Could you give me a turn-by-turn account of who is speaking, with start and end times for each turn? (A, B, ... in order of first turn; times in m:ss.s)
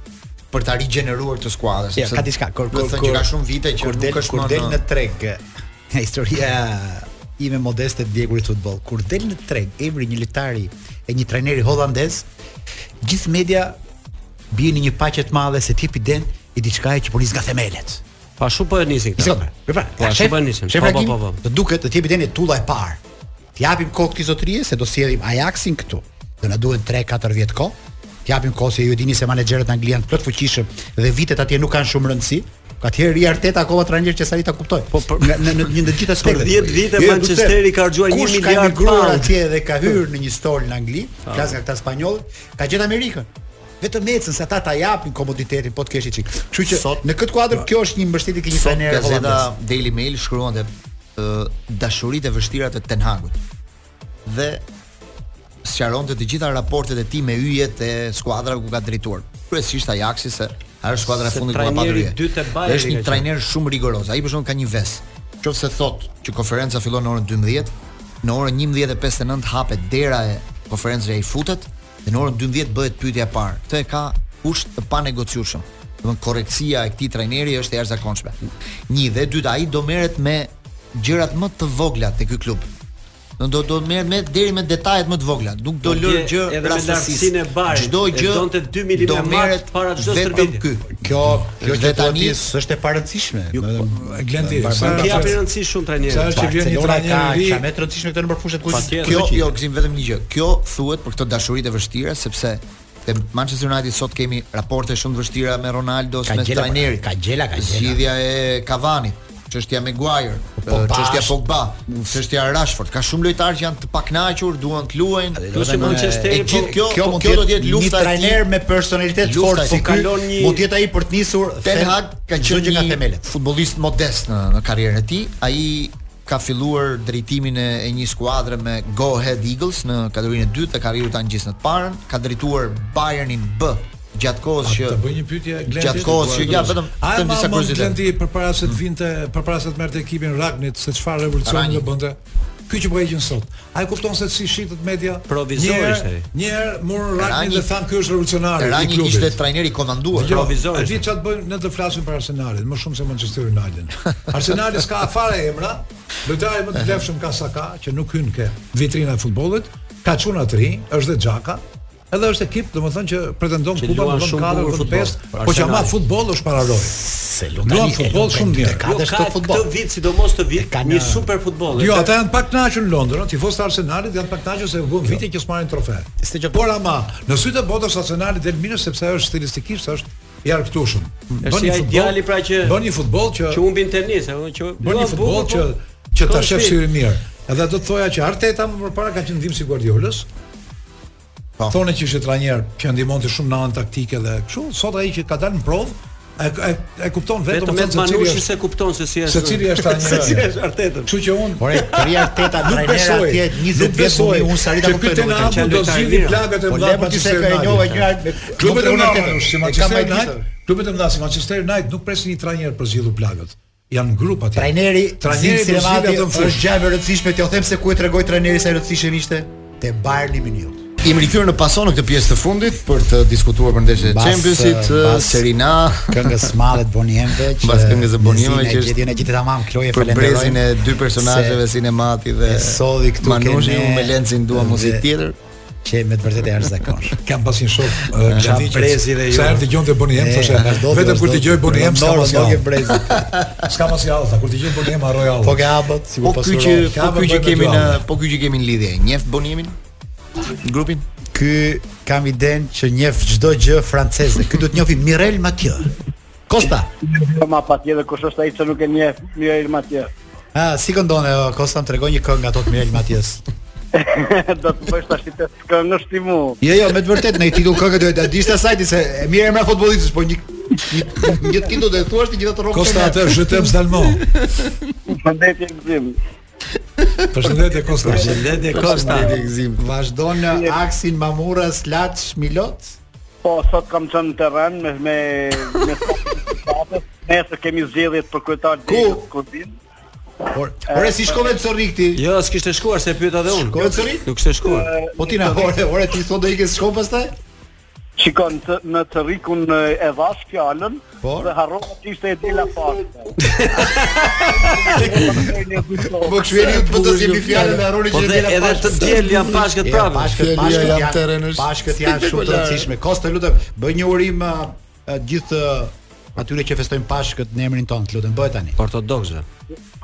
0:00.5-0:04.8 A
0:02.0-0:12.3 B
0:13.0-0:13.8 B
0:14.5-0:18.0 B
0:18.4-0:19.4 C
0:19.2-0:23.0 B
0:20.0-0:21.4 C
0:23.6-0:43.3 B
0:34.9-0:39.3 C
0:41.3-0:41.6 C
0:43.8-0:49.5 B
0:46.6-0:47.0 A
0:48.5-0:53.4 A
0:54.2-0:54.6 A
0:55.6-1:18.4 A
1:01.1-1:03.2 C
1:18.9-1:22.7 A
1:23.4-1:31.0 A
1:25.8-1:30.6 C
1:31.0-1:35.4 B
1:31.6-1:32.4 A
1:33.5-1:33.8 C
1:33.8-1:35.4 D
1:34.8-1:36.5 C
1:36.0-1:37.6 D
1:36.3-1:39.4 B
1:38.7-1:39.4 C
1:39.0-1:47.0 A
1:46.2-1:48.0 B
1:47.6-1:58.4 A
1:50.6-1:51.4 B
1:55.4-2:03.3 B
1:55.5-1:56.8 C
1:59.2-1:59.8 A
1:59.5-2:00.6 C
2:01.6-2:15.0 A
2:14.6-2:22.2 D
2:15.7-2:18.0 A
2:16.0-2:16.8 C
2:21.4-2:21.8 A
2:22.7-2:29.4 D
2:25.3-2:26.3 C
2:27.2-2:27.7 A
2:28.6-2:30.4 A
2:30.1-2:47.0 D
2:30.3-2:31.0 C
2:43.8-2:45.8 C
2:45.4-2:45.9 B
2:46.8-2:49.7 B
2:47.6-2:48.8 D
2:48.8-2:52.1 C
2:50.6-2:51.3 B
2:51.7-3:03.6 D
2:56.2-2:56.7 B
3:01.4-3:02.8 C
3:03.5-3:05.7 C
3:04.8-3:10.3 D
3:06.2-3:06.8 C
3:11.7-3:18.4 D
3:17.5-3:21.1 C
3:19.2-3:20.5 D
3:21.0-3:21.8 D
3:21.6-3:25.6 B
3:21.7-3:22.5 C
3:22.6-3:36.6 D
3:25.2-3:26.4 C
3:26.7-3:30.4 B
3:34.5-3:40.8 B
3:41.0-3:46.5 A
3:44.0-3:45.5 B
3:46.1-3:50.6 B
3:47.6-3:49.0 A
3:49.9-3:55.4 A
3:51.2-3:51.6 B
3:52.4-3:55.1 B
3:55.8-3:57.2 B
3:57.2-4:02.7 D
3:58.3-3:59.7 C
4:00.1-4:03.2 B
4:02.9-4:03.7 A
4:03.6-4:05.6 D
4:05.4-4:06.9 B
4:06.2-4:09.7 A
4:06.9-4:08.0 D
4:10.6-4:11.0 A
4:11.3-4:15.9 B
4:16.5-4:16.9 B
4:17.0-4:20.1 E
4:20.5-4:23.4 B
4:23.9-4:26.6 E
4:26.6-4:33.8 B
4:32.7-4:34.3 D
4:34.4-4:34.7 A
4:35.1-4:36.2 E
4:37.0-4:37.4 A
4:37.3-4:38.4 D
4:38.0-4:39.3 C
4:38.0-4:38.8 E
4:38.4-4:39.8 A
4:39.8-4:42.9 B
4:40.5-4:40.8 E
4:43.4-4:49.8 E
4:48.9-4:49.2 B
4:50.5-4:52.2 B
4:50.9-4:51.6 E
4:52.1-4:54.9 C
4:53.7-4:54.3 B
4:54.6-4:55.7 E
4:55.2-4:57.3 B
4:58.2-5:03.3 E
5:01.2-5:01.5 B
5:03.4-5:04.8 C
5:04.4-5:06.8 E
5:04.9-5:05.5 B
5:06.1-5:18.8 B
5:07.0-5:07.3 A
5:08.1-5:10.3 C
5:09.3-5:09.6 A
5:10.3-5:12.9 A
5:18.8-5:19.4 C